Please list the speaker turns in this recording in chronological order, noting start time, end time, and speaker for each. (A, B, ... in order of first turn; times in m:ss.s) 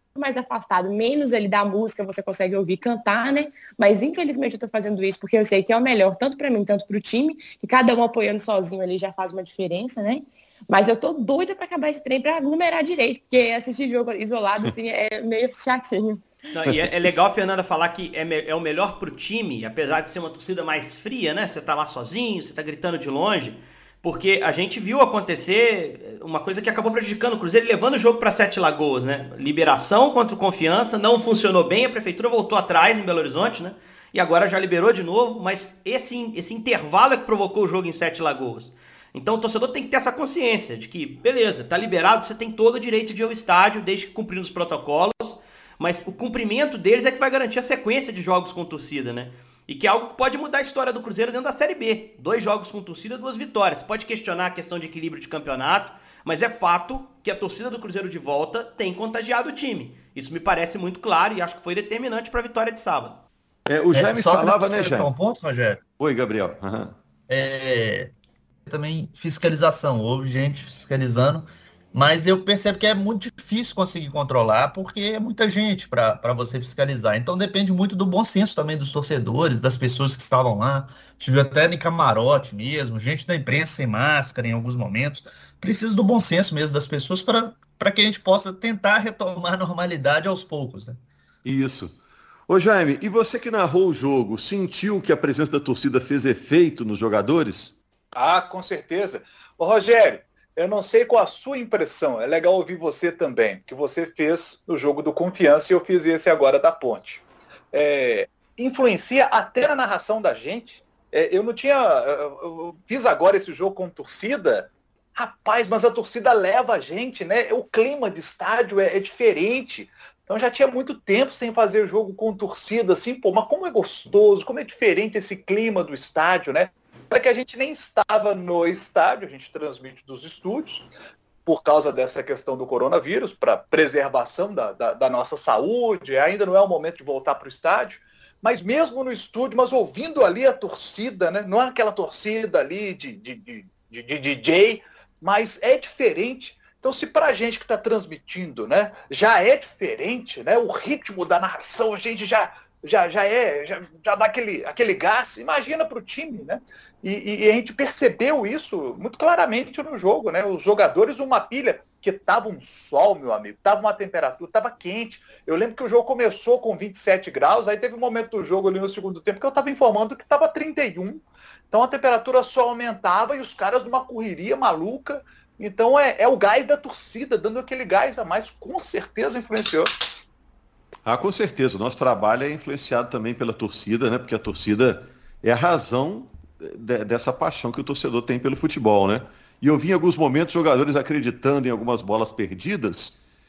0:00.2-0:16.3 A
0:16.5-1:03.2 B
1:03.7-1:05.1 C
1:03.9-1:05.8 D
1:06.0-1:07.0 C
1:07.3-1:08.1 D
1:08.6-1:31.0 D
1:31.4-1:31.9 C
1:32.5-1:37.8 C
1:38.1-2:10.9 E
2:11.4-2:59.9 E
3:01.0-3:13.2 C